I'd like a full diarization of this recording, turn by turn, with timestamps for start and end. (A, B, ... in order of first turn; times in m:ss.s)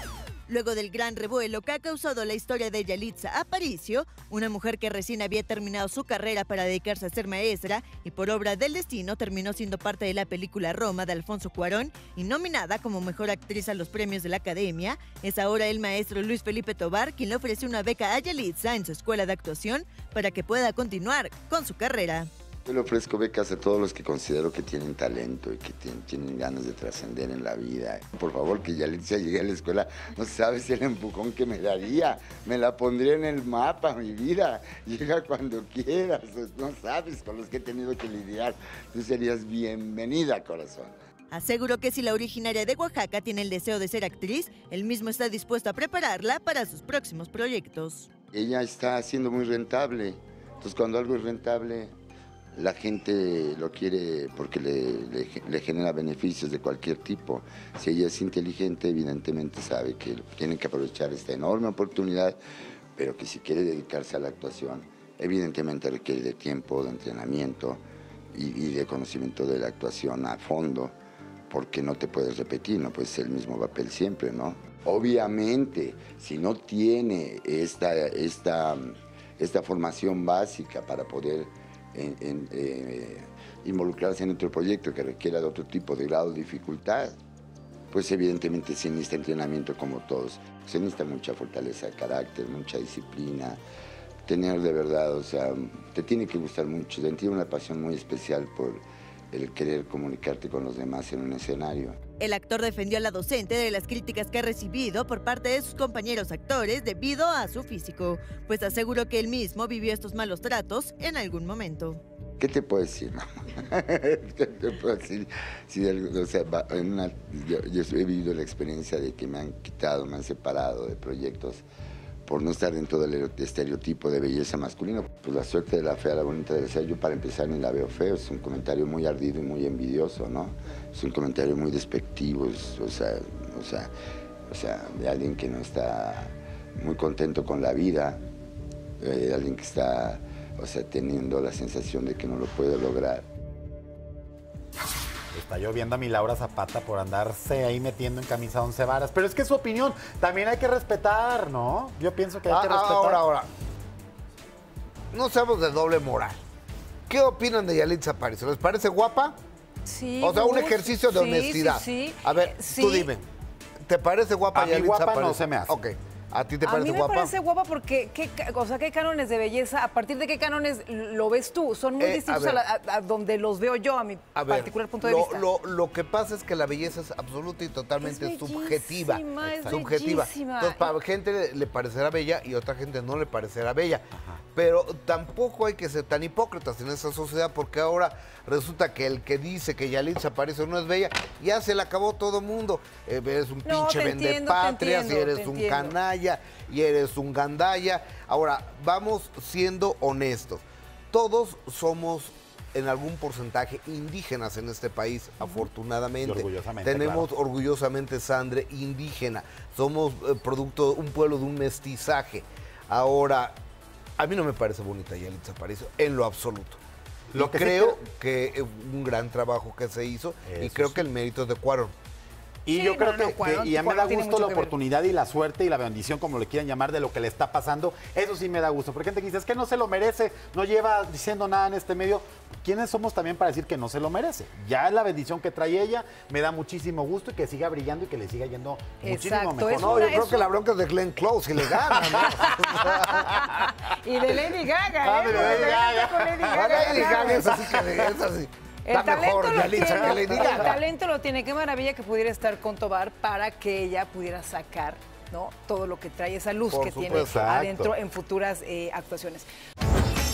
0:00.5-0:22.3 A
0:22.6-0:40.9 B
0:41.3-0:48.1 A
0:48.3-0:51.9 B
0:52.5-1:02.4 B
1:03.0-1:07.8 B
1:08.3-1:10.9 B
1:11.5-1:27.2 B
1:27.9-1:33.6 B
1:34.3-1:42.0 B
1:42.2-1:52.0 A
1:52.4-2:01.6 B
2:02.2-2:13.9 B
2:14.5-2:18.2 B
2:19.0-2:23.3 B
2:25.3-2:33.2 C
2:32.5-2:33.5 D
2:35.1-2:36.4 D
2:37.1-2:39.4 D
2:39.8-2:43.1 E
2:40.2-2:43.2 D
2:43.9-2:47.3 D
2:44.5-2:45.7 C
2:46.6-2:55.5 E
2:52.0-2:52.6 D
2:54.3-3:33.6 D
2:58.0-3:00.9 E
3:13.6-3:16.0 E
3:26.2-3:27.3 C
3:34.2-3:36.8 D
3:37.3-3:38.0 C
3:37.3-3:41.9 D
3:40.4-3:41.1 C
3:42.6-4:00.2 C
3:42.7-3:44.7 E
3:59.0-4:00.5 E
3:59.7-4:03.3 D
4:01.7-4:03.0 C
4:02.7-4:07.6 E
4:05.0-4:08.1 C
4:05.3-4:05.7 D
4:06.5-4:10.8 D
4:08.8-4:19.5 E
4:09.9-4:10.7 C
4:16.7-4:17.7 D
4:17.1-4:17.9 C